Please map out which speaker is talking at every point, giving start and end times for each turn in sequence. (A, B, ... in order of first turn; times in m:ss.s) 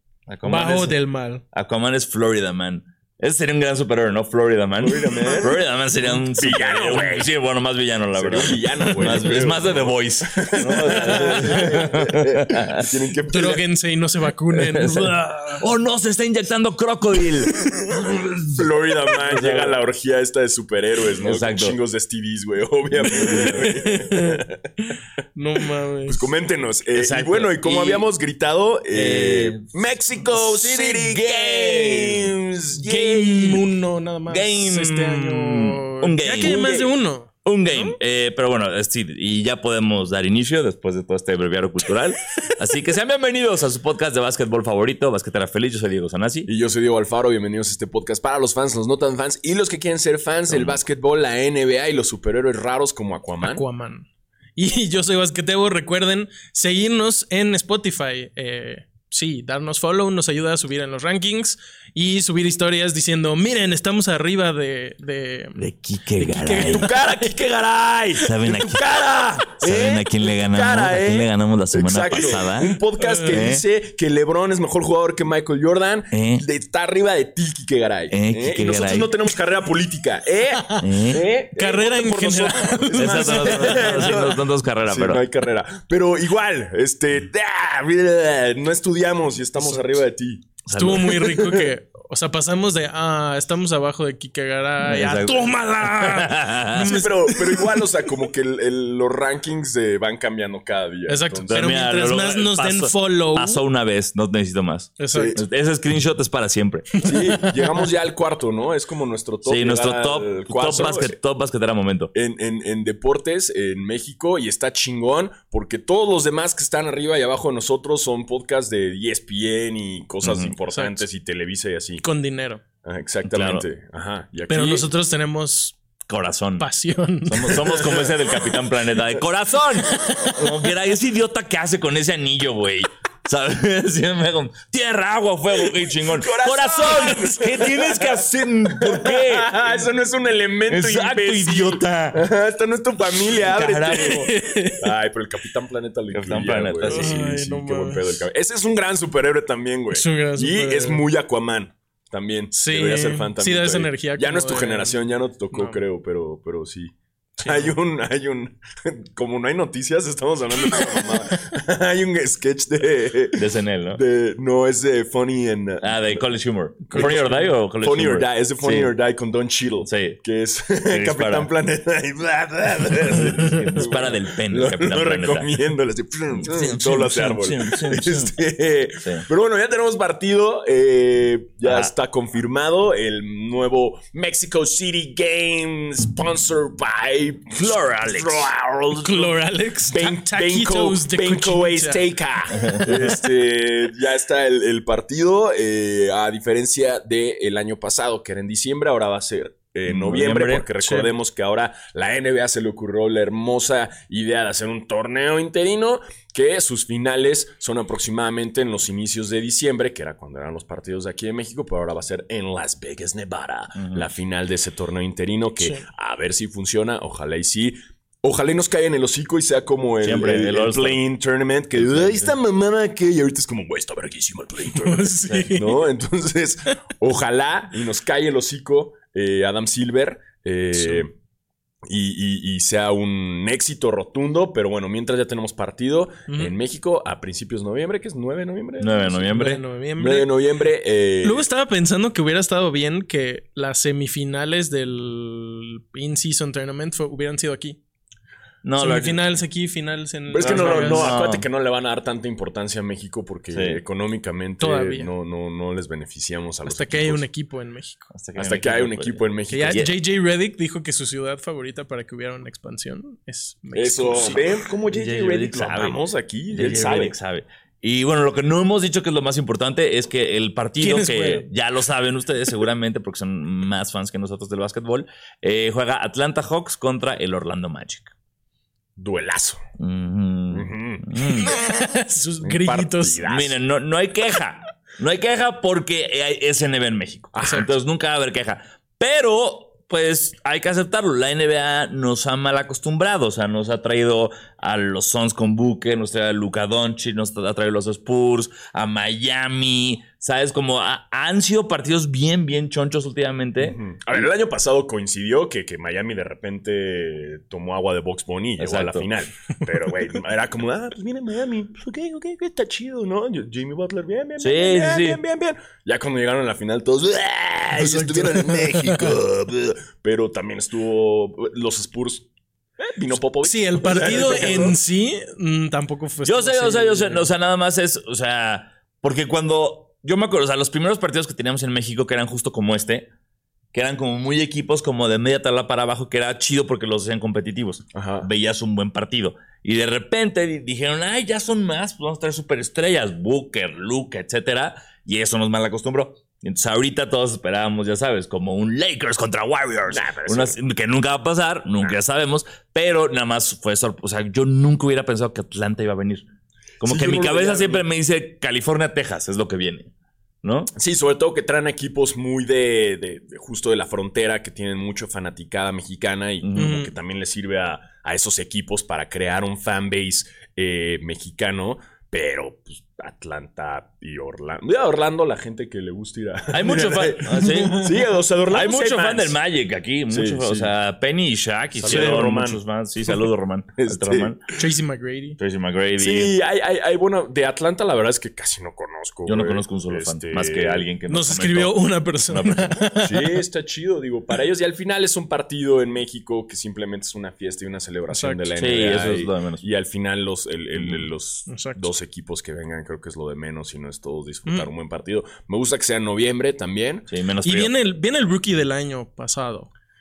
0:00.3-0:01.0 A
0:00.4-0:01.4 B
0:01.5-0:12.9 A
0:04.8-0:05.6 C
0:06.2-0:07.3 C
0:08.1-0:13.6 C
0:10.8-0:11.6 B
0:13.3-0:15.6 B
0:14.5-0:19.8 A
0:18.6-0:24.6 C
0:21.2-0:21.8 A
0:23.1-0:26.3 B
0:26.1-0:33.6 C
0:26.9-0:28.1 A
0:28.9-0:32.4 A
0:32.8-0:38.0 B
0:34.3-0:36.8 A
0:36.4-0:36.9 C
0:37.4-0:46.5 A
0:46.5-0:53.6 C
0:50.5-0:50.8 A
0:53.4-1:05.7 B
1:05.6-1:06.9 A
1:06.2-1:07.3 B
1:06.6-1:31.7 C
1:08.2-1:12.8 A
1:13.0-1:13.4 B
1:13.3-1:13.6 A
1:16.1-1:16.4 A
1:18.1-1:19.1 A
1:20.5-1:20.9 B
1:20.8-1:21.3 A
1:21.6-1:24.2 B
1:23.0-1:25.2 A
1:29.6-1:30.0 B
1:30.6-1:31.2 A
1:30.7-1:37.8 B
1:34.8-1:37.0 A
1:36.8-1:41.6 C
1:41.1-1:43.6 B
1:41.5-1:47.0 A
1:45.0-1:45.4 B
1:45.1-1:45.4 C
1:47.0-1:47.9 B
1:47.0-1:51.1 C
1:49.4-1:52.1 A
1:52.1-2:02.0 C
2:00.2-2:00.6 A
2:00.7-2:01.0 B
2:02.0-2:02.6 B
2:02.8-2:04.9 C
2:03.2-2:03.7 A
2:04.5-2:05.8 B
2:06.1-2:06.7 A
2:06.6-2:07.8 B
2:07.3-2:19.7 A
2:07.7-2:08.6 C
2:15.7-2:46.3 C
2:20.7-2:22.2 A
2:23.4-2:24.3 A
2:23.9-2:24.9 B
2:26.1-2:27.2 A
2:26.9-2:28.2 B
2:29.9-2:31.0 B
2:32.5-2:35.0 B
2:35.5-2:35.8 B
2:37.4-2:37.7 B
2:43.4-2:44.0 A
2:45.8-2:48.9 A
2:46.9-2:47.5 B
2:46.9-3:51.1 C
2:49.8-2:50.2 A
2:50.9-2:51.5 A
2:53.1-2:55.5 A
2:56.3-2:58.3 A
3:01.6-3:01.9 A
3:07.5-3:08.5 A
3:09.0-3:12.0 B
3:19.8-3:20.7 A
3:20.8-3:21.1 B
3:33.8-3:34.1 A
3:35.6-3:35.8 B
3:40.0-3:41.0 A
3:41.7-3:42.4 A
3:44.7-3:45.8 B
3:45.3-3:45.5 A
3:50.8-3:51.0 B
3:51.9-3:59.2 C
3:56.3-3:56.6 B
3:58.8-3:59.6 A
3:59.2-4:00.3 B
4:00.0-4:01.5 C
4:01.2-4:07.8 B
4:08.6-4:09.2 A
4:08.8-4:11.1 B
4:10.3-4:17.2 C
4:10.4-4:11.5 A
4:13.5-4:13.8 A
4:14.6-4:15.1 B
4:16.7-4:18.1 B
4:18.1-4:19.9 A
4:18.4-4:19.9 C
4:19.5-4:24.4 B
4:23.8-4:27.2 C
4:24.9-4:26.0 A
4:26.5-4:38.1 A
4:30.8-4:31.5 B
4:39.0-4:39.6 C
4:39.8-4:41.5 A
4:40.5-4:41.0 C
4:41.4-4:43.2 B
4:42.4-4:43.6 C
4:43.2-5:04.3 A
4:47.3-4:47.7 C
5:03.6-5:22.3 C
5:08.6-5:09.1 A
5:14.4-5:15.2 A
5:17.8-5:19.2 B
5:22.8-5:24.8 C
5:23.4-5:27.3 B
5:26.2-5:33.1 A
5:33.7-5:56.3 A
5:37.9-5:38.3 C
5:49.9-5:50.6 C
5:56.8-5:59.9 A
5:56.8-5:57.8 C
6:00.4-6:00.7 A
6:00.8-6:19.4 C
6:06.4-6:06.7 A
6:06.6-6:06.9 B
6:16.5-6:18.0 A
6:18.5-6:24.4 A
6:20.1-6:20.7 C
6:21.8-6:23.2 C
6:21.9-6:22.2 B
6:23.8-6:24.6 C
6:24.6-6:25.4 B
6:25.4-6:26.4 A
6:26.0-6:30.9 C
6:29.3-6:32.8 A
6:31.1-6:33.4 B
6:33.0-6:47.1 C
6:38.1-6:38.5 B
6:38.6-6:39.7 A
6:40.8-6:41.1 A
6:41.5-6:41.9 B
6:47.1-6:47.7 A
6:47.4-6:49.7 B